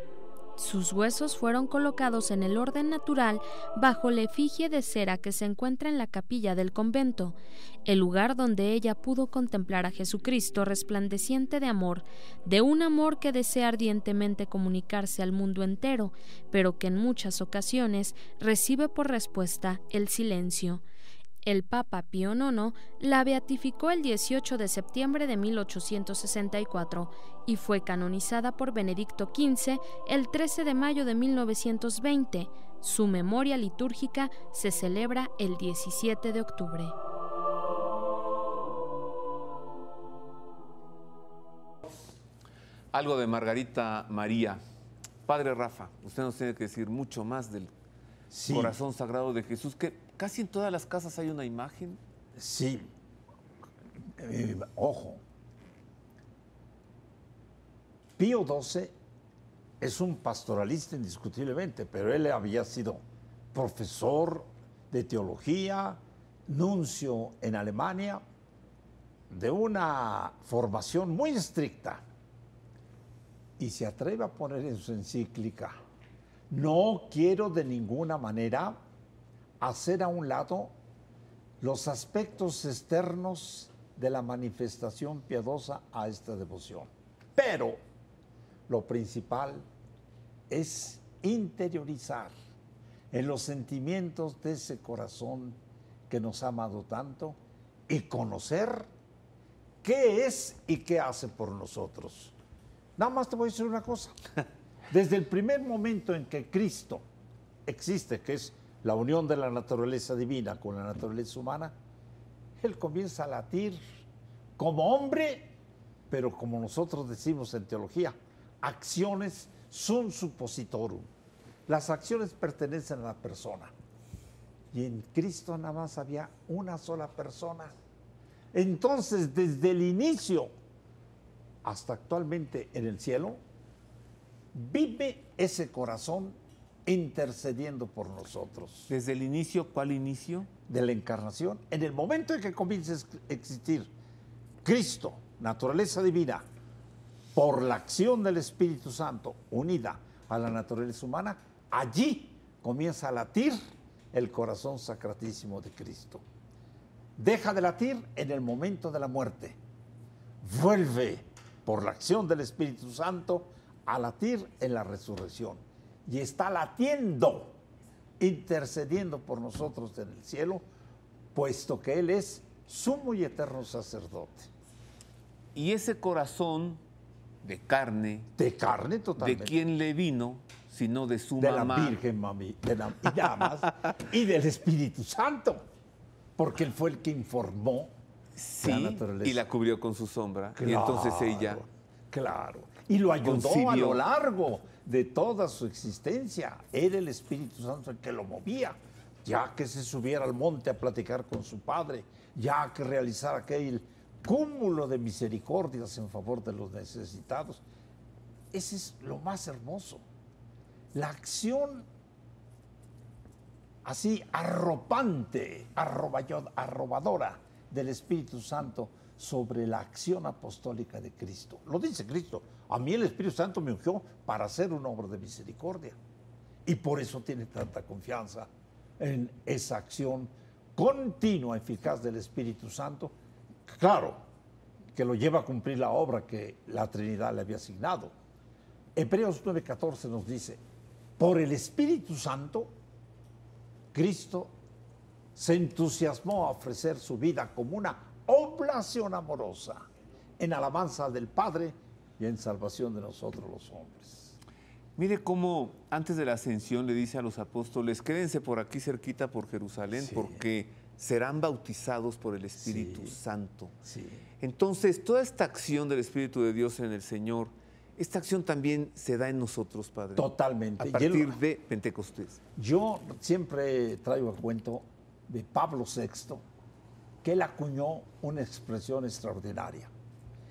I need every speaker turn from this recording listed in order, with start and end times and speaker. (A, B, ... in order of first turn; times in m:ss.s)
0:00.6-0:20.8 A
0:21.4-0:37.0 A
0:42.9-0:44.6 B
0:45.3-0:47.7 B
0:48.3-0:48.8 C
0:48.5-0:52.0 B
0:52.4-0:52.9 C
0:54.2-0:55.2 C
0:58.2-0:58.9 C
0:59.8-1:08.2 C
1:09.3-1:12.0 C
1:13.6-1:15.8 C
1:16.5-1:18.8 C
1:19.6-1:20.7 C
1:21.6-1:27.8 C
1:28.7-1:29.7 C
1:30.5-1:32.3 C
1:33.1-1:37.4 C
1:37.9-1:38.9 C
1:39.8-1:42.3 C
1:43.0-1:44.2 C
1:44.9-1:47.0 C
1:47.7-1:51.8 C
1:52.6-1:53.8 C
1:54.6-1:55.5 C
1:56.1-2:01.1 C
2:01.7-2:03.7 C
2:04.7-2:07.7 C
2:08.5-2:10.5 C
2:11.6-2:13.4 C
2:14.5-2:18.9 C
2:18.9-2:20.5 B
2:20.7-2:23.9 C
2:24.6-2:26.4 C
2:27.3-2:33.6 C
2:34.1-2:36.2 C
2:37.2-2:39.6 C
2:40.4-2:47.6 C
2:48.2-2:50.6 C
2:51.3-2:54.5 C
2:55.6-2:56.8 B
2:57.4-2:58.3 B
2:58.4-2:59.5 C
2:59.2-3:02.0 B
3:01.4-3:05.7 C
3:06.4-3:07.9 C
3:08.4-3:11.6 B
3:08.6-3:09.4 C
3:10.6-3:27.6 C
3:13.2-3:14.0 B
3:28.5-3:30.0 C
3:30.9-3:31.9 C
3:33.8-3:46.0 C
3:46.6-3:53.1 C
3:53.7-3:54.2 C
3:55.0-3:58.2 C
3:59.0-4:00.6 C
4:01.2-4:02.8 C
4:03.9-4:04.5 C
4:05.4-4:09.9 C
4:10.4-4:14.4 C
4:15.0-4:23.7 B
4:19.9-4:20.4 C
4:22.6-4:23.2 C
4:23.8-4:24.2 C
4:24.4-4:32.4 B
4:30.2-4:31.4 C
4:32.6-4:36.4 C
4:37.2-4:39.9 C